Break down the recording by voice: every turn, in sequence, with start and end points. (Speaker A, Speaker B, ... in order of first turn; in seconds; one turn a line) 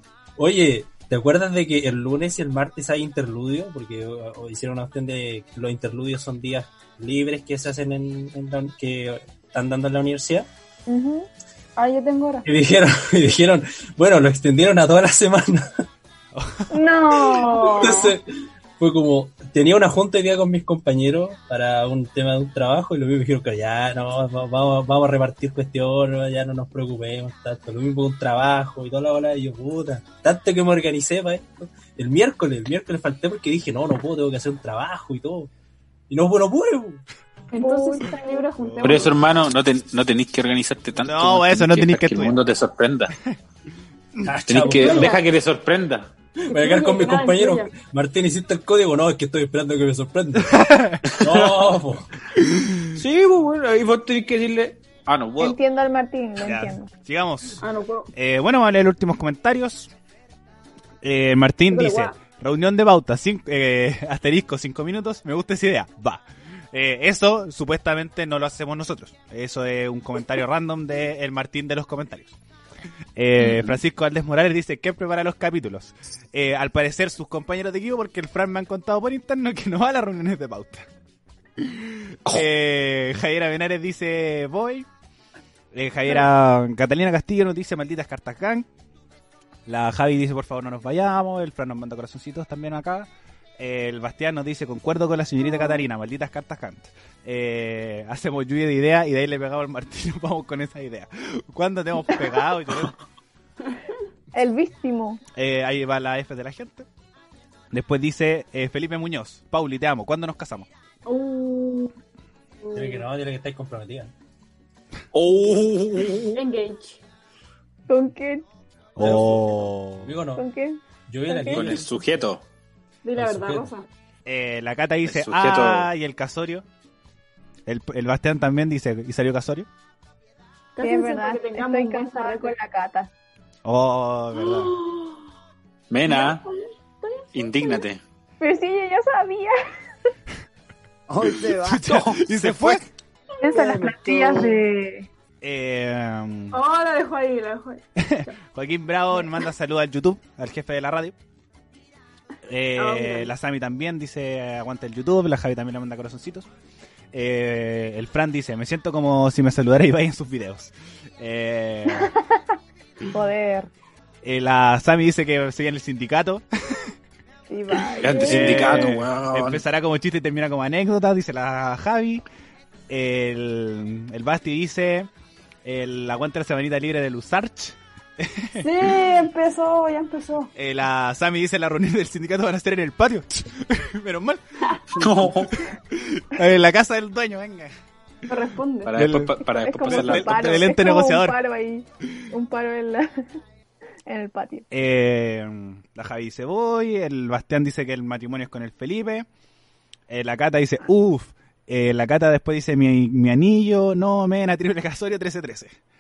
Speaker A: 0.4-10.5
Speaker B: 10.9-11.3
Speaker C: 11.8-12.5
Speaker A: 12.4-15.8
Speaker D: 16.3-16.7
Speaker B: 16.7-18.0
Speaker C: 17.3-18.1
Speaker A: 17.8-18.2
Speaker A: 18.8-35.5
Speaker A: 36.1-37.0
Speaker C: 37.5-39.2
Speaker B: 37.5-38.5
Speaker D: 38.6-39.2
Speaker E: 38.8-43.1
Speaker D: 41.0-42.4
Speaker A: 44.2-45.2
Speaker E: 44.5-46.1
Speaker C: 44.7-45.2
Speaker A: 46.4-52.1
Speaker C: 46.5-47.7
Speaker D: 50.4-51.2
Speaker E: 51.0-51.8
Speaker D: 52.7-53.0
Speaker E: 52.9-55.6
Speaker B: 55.4-56.9
Speaker D: 56.4-57.6
Speaker C: 57.6-58.1
Speaker D: 58.1-59.9
Speaker D: 61.0-72.3
Speaker C: 61.7-62.2
Speaker D: 73.2-80.9
Speaker E: 73.4-73.7
Speaker D: 81.6-84.9
Speaker D: 85.7-88.7
Speaker D: 89.7-102.9
Speaker B: 104.3-105.2
Speaker D: 105.4-106.9
Speaker D: 107.7-110.7
Speaker C: 111.1-112.0
Speaker C: 112.6-113.1
Speaker A: 112.8-114.1
Speaker E: 115.1-116.4
Speaker C: 116.3-117.0
Speaker B: 117.9-118.4
Speaker D: 119.0-120.1
Speaker A: 119.0-120.5
Speaker B: 120.4-121.7
Speaker A: 121.1-122.1
Speaker E: 121.5-122.4
Speaker C: 123.0-123.8
Speaker A: 123.2-123.7
Speaker D: 124.3-126.7
Speaker E: 125.0-125.9
Speaker D: 127.7-129.7
Speaker C: 130.7-132.6
Speaker B: 130.8-133.1
Speaker D: 133.6-134.8
Speaker C: 134.3-135.2
Speaker E: 135.9-136.4
Speaker C: 136.1-137.8
Speaker E: 137.3-138.0
Speaker B: 138.4-139.6
Speaker F: 141.1-141.8
Speaker D: 141.5-142.9
Speaker E: 141.8-142.8
Speaker B: 143.4-145.1
Speaker C: 143.4-144.5
Speaker F: 143.5-144.6
Speaker D: 145.4-146.6
Speaker C: 146.5-148.3
Speaker D: 148.0-151.2
Speaker D: 152.5-156.5
Speaker C: 152.8-153.3
Speaker D: 157.1-162.1
Speaker B: 161.9-162.4
Speaker B: 163.1-163.7
Speaker D: 164.2-166.9
Speaker B: 167.5-168.9
Speaker E: 168.0-169.6
Speaker D: 168.3-172.2
Speaker D: 172.9-175.1
Speaker D: 175.6-178.8
Speaker C: 178.6-180.5
Speaker D: 180.6-187.7
Speaker E: 185.0-185.7
Speaker C: 188.3-189.0
Speaker E: 188.8-190.7
Speaker D: 188.9-191.4
Speaker B: 189.4-193.3
Speaker B: 194.1-194.7
Speaker D: 194.7-199.3
Speaker D: 200.1-205.8